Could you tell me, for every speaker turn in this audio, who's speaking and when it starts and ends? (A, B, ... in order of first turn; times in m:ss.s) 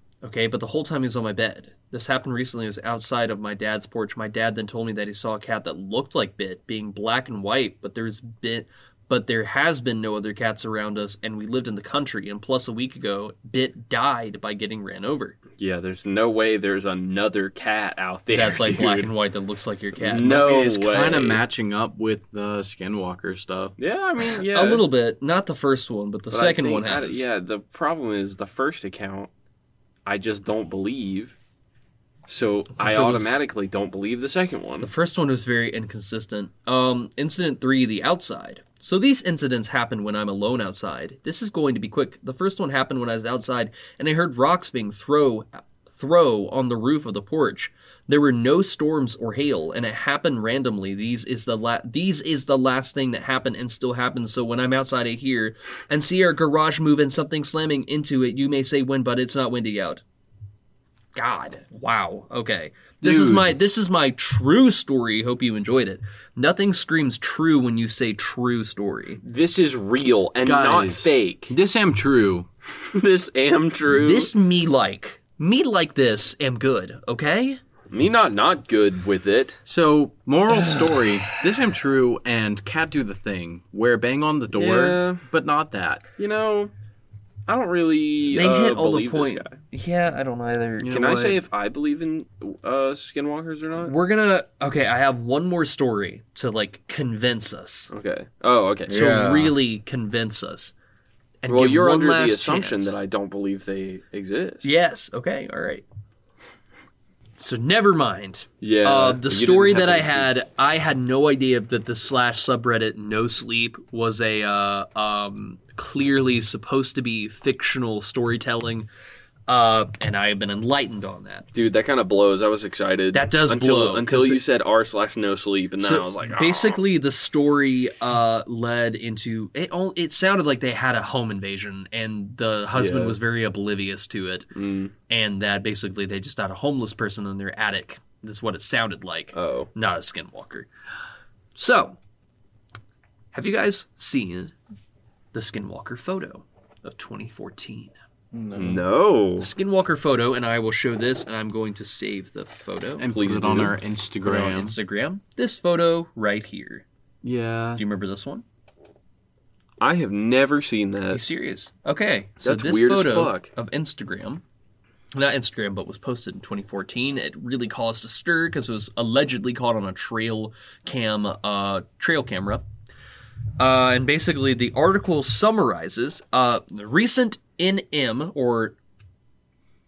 0:00.2-0:15.4 A
0:15.6-0:19.1 B
0:18.3-0:20.4 A
0:20.0-0:21.4 B
0:20.2-0:23.8 C
0:23.8-0:24.9 B
0:24.5-0:27.3 A
0:26.3-0:29.3 B
0:30.1-0:31.4 B
0:32.3-0:34.9 B
0:32.8-0:33.4 A
0:34.8-1:00.0 A
1:01.2-1:09.2 A
1:03.0-1:03.6 C
1:09.2-1:11.6 B
1:10.4-1:12.5 C
1:12.8-1:14.3 B
1:13.9-1:17.6 A
1:17.9-1:19.6 B
1:19.7-1:26.0 C
1:20.5-1:21.4 A
1:24.5-1:25.2 B
1:26.2-1:26.7 B
1:27.5-1:29.6 B
1:28.3-1:31.4 A
1:30.9-1:33.9 B
1:33.8-1:37.9 A
1:37.9-1:39.5 B
1:38.9-1:40.7 A
1:39.1-1:39.4 C
1:41.4-1:43.0 A
1:41.5-1:44.7 B
1:44.6-1:45.8 A
1:47.4-1:58.9 A
1:48.6-1:50.3 B
1:59.5-2:01.5 A
2:01.5-2:06.8 B
2:03.1-2:04.4 A
2:05.8-2:14.5 A
2:12.7-2:13.2 B
2:14.5-2:14.9 B
2:15.1-2:20.7 A
2:19.3-2:19.7 B
2:21.6-2:22.0 A
2:23.3-2:24.5 A
2:25.3-2:27.9 A
2:28.3-2:28.8 C
2:28.6-2:29.5 B
2:29.4-2:33.1 A
2:33.0-2:34.8 C
2:33.1-2:33.8 B
2:34.2-2:36.8 A
2:37.2-2:37.8 C
2:37.8-2:38.4 A
2:39.8-2:41.2 B
2:41.1-2:44.4 A
2:42.4-2:43.5 B
2:45.1-2:52.6 A
2:53.6-2:58.8 A